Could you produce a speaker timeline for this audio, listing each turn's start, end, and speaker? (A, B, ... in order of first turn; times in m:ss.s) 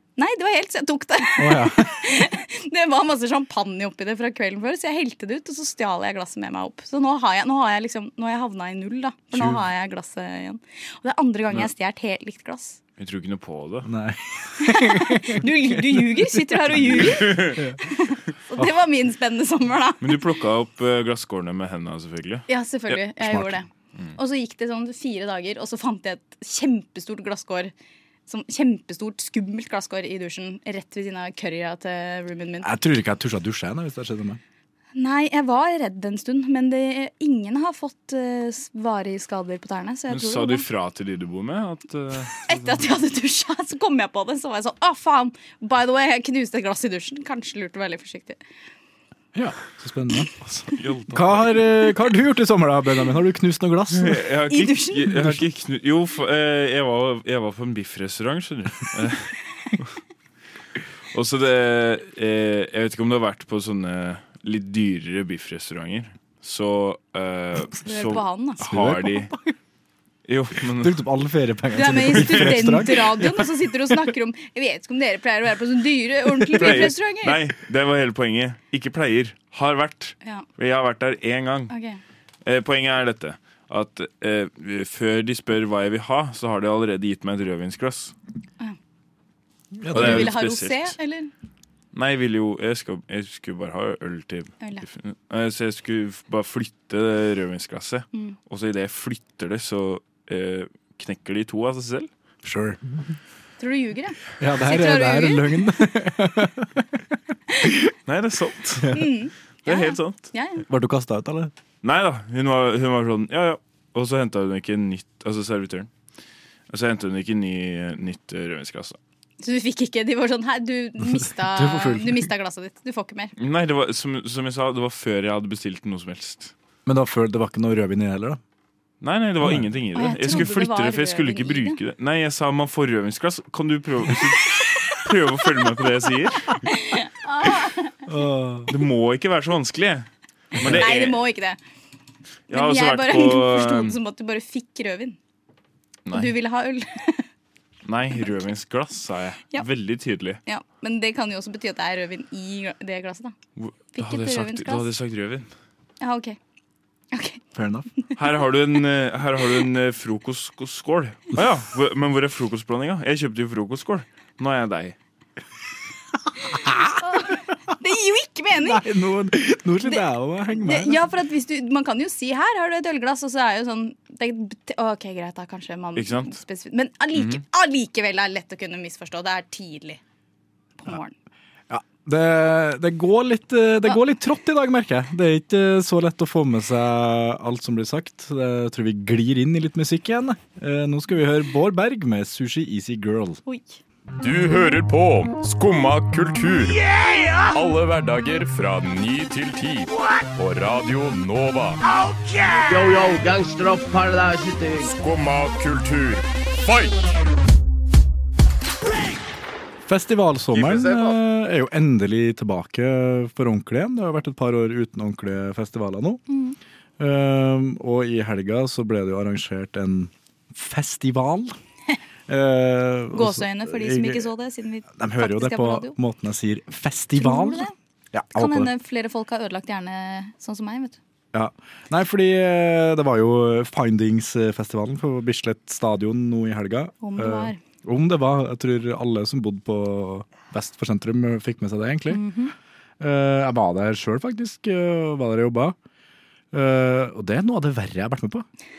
0:00.2-0:12.8 A
0:01.4-0:02.0 B
0:09.3-0:09.6 B
0:13.0-0:13.9 C
0:13.8-0:15.5 B
0:14.6-0:20.2 A
0:17.0-0:17.6 C
0:20.0-0:22.5 C
0:22.5-0:27.7 A
0:23.2-0:23.5 B
0:28.3-0:32.7 A
0:32.6-0:34.4 B
0:35.0-0:40.6 A
0:40.1-0:42.8 C
0:42.5-0:48.4 A
0:49.3-0:50.3 B
0:50.4-0:51.6 C
0:51.1-0:54.2 B
0:53.9-0:59.9 C
0:54.5-0:55.1 A
0:55.1-0:55.4 B
1:01.1-1:09.3 C
1:07.8-1:08.6 A
1:08.6-1:09.5 B
1:10.3-1:11.0 C
1:10.7-1:13.5 B
1:11.7-1:17.4 A
1:16.6-1:21.7 C
1:16.6-1:16.9 B
1:21.7-1:22.0 A
1:22.4-1:28.1 C
1:29.8-1:30.3 B
1:29.9-1:30.9 C
1:29.9-1:31.3 A
1:31.9-1:42.1 C
1:42.4-1:43.0 B
1:43.6-1:45.6 A
1:44.4-1:47.0 B
1:47.6-1:47.9 B
1:48.0-1:48.9 C
1:48.9-1:50.6 A
1:49.6-1:50.2 C
1:50.6-1:51.5 B
1:51.8-1:55.9 C
1:56.7-1:59.0 C
1:59.4-2:03.3 A
2:01.1-2:02.3 B
2:03.4-2:06.5 C
2:06.8-2:08.4 B
2:09.0-2:16.6 C
2:09.9-2:11.8 A
2:16.7-2:17.9 A
2:18.0-2:18.7 B
2:18.7-2:21.2 C
2:20.6-2:21.6 A
2:22.5-2:24.0 C
2:22.5-2:25.2 A
2:26.0-2:26.3 C
2:26.1-2:27.2 A
2:27.8-2:30.4 C
2:30.4-2:33.3 A
2:33.6-2:35.5 C
2:33.9-2:34.9 A
2:36.0-2:36.4 A
2:37.1-2:37.4 A
2:37.5-2:37.9 B
2:38.2-2:45.0 C
2:46.6-2:46.9 B
2:47.0-2:48.8 A
2:48.6-2:51.0 B
2:50.6-3:00.0 A
2:56.0-2:56.4 C
2:57.2-2:57.4 C
3:00.8-3:01.1 A
3:01.7-3:13.4 B
3:13.4-3:13.8 A
3:14.2-3:21.8 D
3:22.7-3:24.9 E
3:24.8-3:27.0 D
3:29.8-3:36.2 B
3:36.3-3:36.6 A
3:37.0-3:41.5 B
3:42.3-3:44.3 B
3:43.1-3:46.0 A
3:44.9-3:48.7 B
3:47.2-3:47.7 A
3:48.3-3:51.0 A
3:51.3-4:02.2 B
3:57.0-3:57.6 A
4:02.1-4:02.5 A
4:03.0-4:05.7 B
4:06.5-4:08.4 B